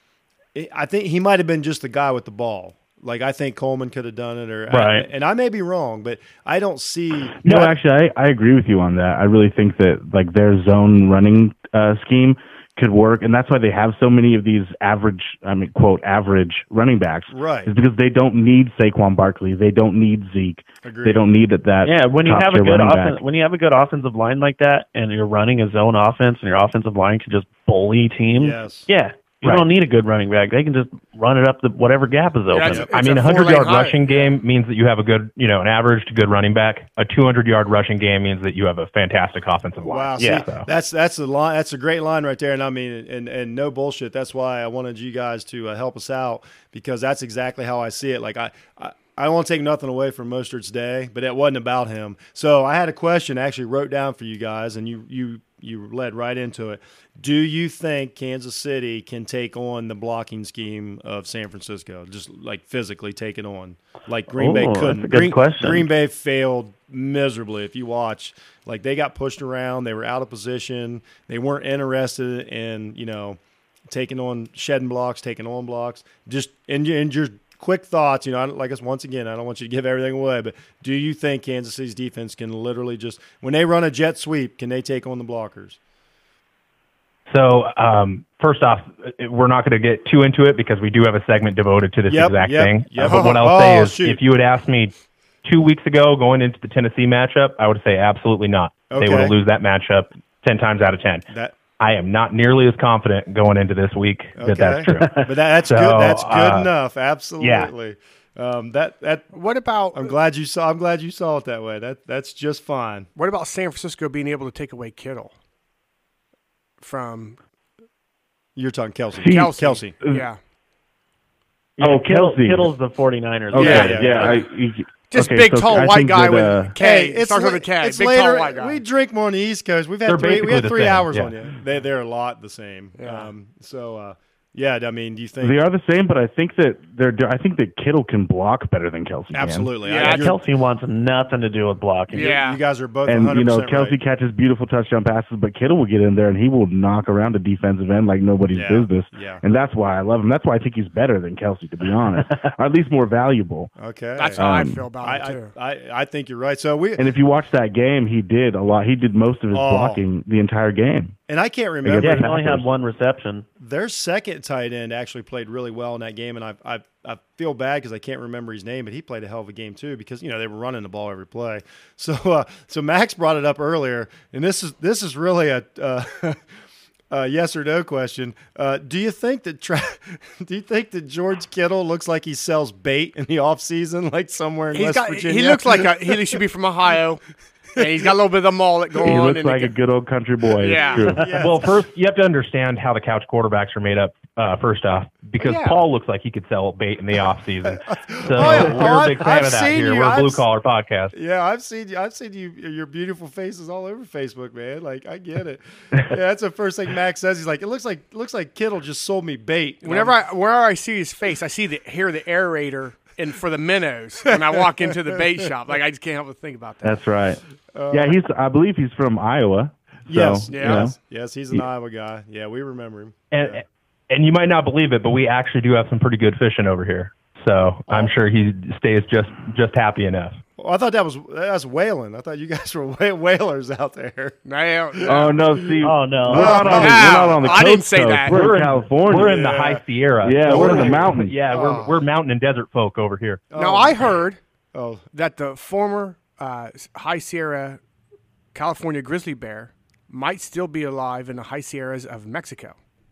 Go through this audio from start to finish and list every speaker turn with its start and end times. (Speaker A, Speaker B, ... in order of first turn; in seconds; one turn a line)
Speaker A: 0.6-7.7
Speaker B: 4.7-5.0
Speaker C: 7.4-23.2
Speaker A: 17.3-17.7
Speaker A: 20.8-21.3
Speaker B: 21.8-32.8
Speaker A: 28.3-28.9
Speaker D: 29.4-29.7
Speaker E: 32.5-34.3
Speaker D: 32.9-40.7
Speaker A: 39.8-85.8
Speaker B: 40.2-40.4
Speaker B: 64.3-65.9
Speaker D: 87.3-101.3
Speaker A: 92.1-94.2
Speaker E: 93.1-93.3
Speaker A: 98.9-99.3
Speaker A: 101.3-101.6
Speaker D: 101.8-106.7
Speaker A: 104.4-109.3
Speaker D: 107.4-107.7
Speaker E: 109.3-110.1
Speaker A: 109.9-113.1
Speaker E: 113.2-115.3
Speaker E: 116.8-117.4
Speaker A: 118.6-120.0
Speaker C: 119.2-120.3
Speaker E: 119.2-120.4
Speaker B: 121.8-124.4
Speaker C: 121.8-122.7
Speaker C: 123.5-126.8
Speaker A: 123.6-124.4
Speaker E: 123.6-124.1
Speaker E: 125.1-128.8
Speaker A: 126.8-135.6
Speaker D: 130.1-131.3
Speaker E: 133.0-133.3
Speaker C: 135.4-139.7
Speaker A: 139.3-140.4
Speaker E: 139.8-140.3
Speaker B: 140.0-142.3
Speaker E: 142.1-142.6
Speaker A: 142.1-144.0
Speaker C: 143.1-153.7
Speaker A: 148.5-149.4
Speaker A: 153.8-157.1
Speaker E: 154.2-155.5
Speaker C: 154.4-154.9
Speaker C: 157.0-161.2
Speaker A: 159.5-160.0
Speaker A: 161.3-162.4
Speaker C: 161.8-162.7
Speaker B: 162.0-163.5
Speaker A: 163.6-176.4
Speaker A: 177.1-186.2
Speaker E: 184.7-187.2
Speaker A: 187.8-188.1
Speaker E: 187.8-189.8
Speaker C: 189.0-191.3
Speaker E: 190.6-191.1
Speaker A: 190.7-191.7
Speaker D: 191.3-201.1
Speaker E: 195.4-195.8
Speaker A: 197.7-200.4
Speaker A: 201.1-210.2
Speaker E: 209.8-217.0
Speaker A: 214.3-214.6
Speaker C: 216.8-217.4
Speaker A: 217.7-218.2
Speaker C: 217.9-221.0
Speaker A: 220.1-223.6
Speaker E: 220.5-220.9
Speaker D: 223.3-230.4
Speaker A: 230.6-234.4
Speaker E: 234.4-235.4
Speaker A: 234.9-237.6
Speaker C: 235.1-239.4
Speaker B: 235.8-236.7
Speaker E: 236.4-238.4
Speaker D: 238.3-243.4
Speaker A: 239.1-239.8
Speaker C: 240.2-241.4
Speaker A: 240.5-242.0
Speaker A: 243.5-244.2
Speaker E: 243.6-244.4
Speaker A: 244.7-245.0
Speaker E: 245.1-247.8
Speaker E: 248.5-252.8